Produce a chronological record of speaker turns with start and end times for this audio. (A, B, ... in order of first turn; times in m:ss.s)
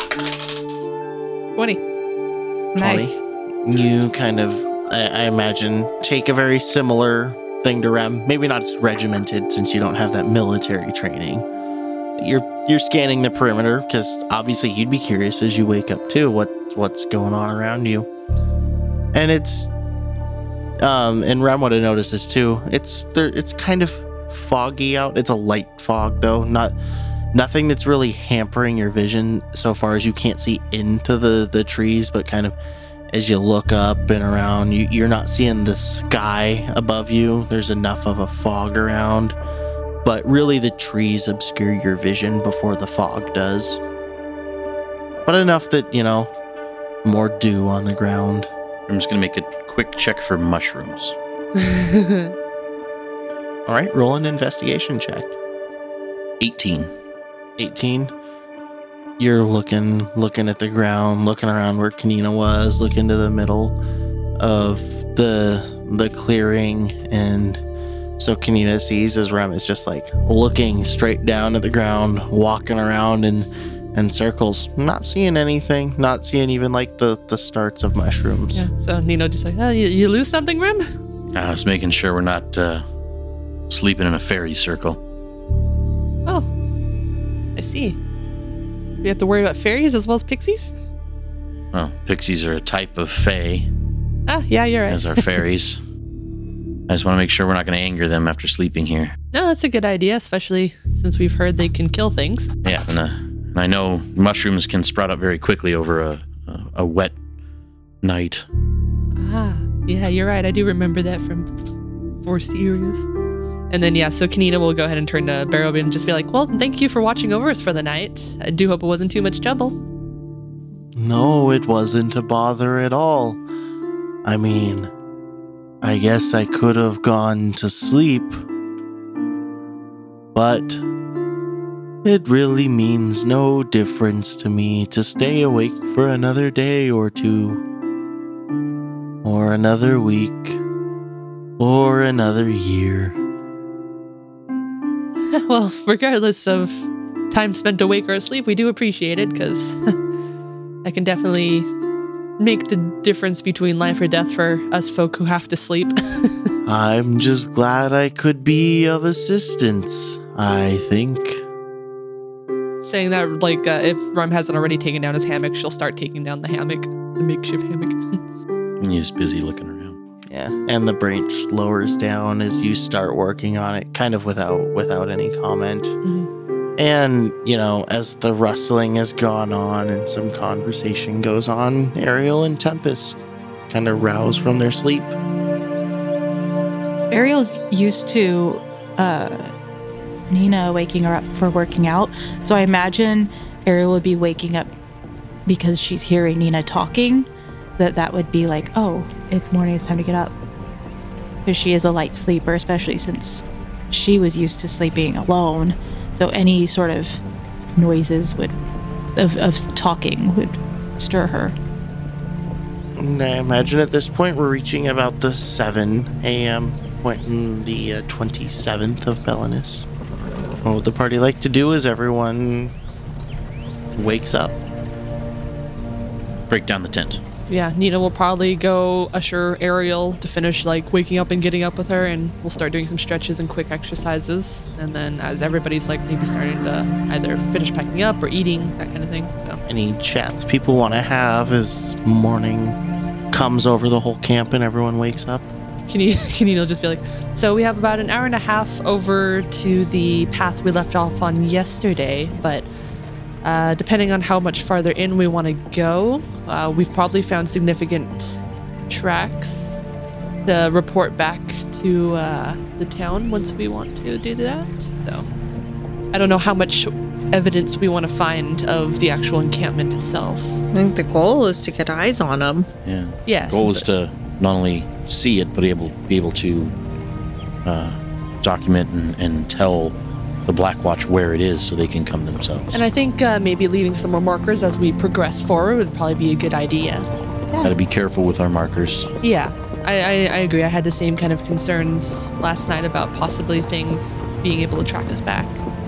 0:01.6-0:01.8 A
0:02.7-0:03.2 B
0:02.8-0:03.1 C
0:03.6-0:11.4 C
0:12.2-0:18.1 C
0:19.1-0:19.7 C
0:20.8-0:26.8 C
0:27.3-0:32.6 C
0:33.1-0:39.4 C
0:40.0-0:43.8 C
0:45.2-0:46.3 C
0:47.0-0:48.5 C
0:48.9-0:51.1 D
0:51.6-0:52.3 A
0:53.7-0:55.3 C
0:56.4-0:56.9 D
0:57.6-0:58.1 C
0:59.2-1:03.8 C
1:04.4-1:07.6 C
1:08.2-1:18.7 C
1:18.5-1:20.9 A
1:21.4-1:22.8 D
1:23.7-1:25.0 D
1:27.6-1:28.0 A
1:29.0-1:30.7 A
1:31.7-1:33.7 D
1:34.3-1:35.2 A
1:34.9-1:35.8 D
1:36.9-1:39.2 D
1:39.3-1:42.5 A
1:42.6-1:47.1 D
1:48.0-1:48.4 D
1:49.2-1:51.5 A
1:52.2-1:53.0 A
1:53.7-1:59.8 A
2:00.9-2:03.4 C
2:04.2-2:04.9 C
2:05.8-2:08.4 C
2:10.3-2:10.8 C
2:12.0-2:17.6 C
2:19.2-2:20.6 C
2:21.6-2:23.2 C
2:25.3-2:30.0 A
2:30.8-2:31.7 A
2:32.4-2:36.5 A
2:36.6-2:41.4 C
2:42.8-2:48.2 A
2:48.8-2:50.0 D
2:50.3-2:56.0 C
2:56.0-2:56.3 A
2:56.8-3:03.2 C
3:03.7-3:05.2 C
3:07.1-3:09.5 B
3:10.3-3:14.7 B
3:15.5-3:20.3 B
3:21.4-3:27.2 B
3:27.8-3:28.6 B
3:29.1-3:31.6 B
3:33.0-3:39.9 C
3:40.6-3:42.7 C
3:44.0-3:44.6 C
3:46.5-3:47.2 D
3:47.5-3:59.6 A
3:59.7-4:02.8 C
4:03.3-4:05.5 C
4:05.9-4:12.7 A
4:13.4-4:18.3 A
4:18.9-4:19.8 A
4:20.4-4:25.3 A
4:26.1-4:30.6 A
4:30.7-4:32.7 E
4:32.8-4:36.7 D
4:33.3-4:33.9 A
4:37.6-4:42.8 D
4:42.7-4:47.1 A
4:47.6-4:49.1 D
4:49.2-4:55.6 A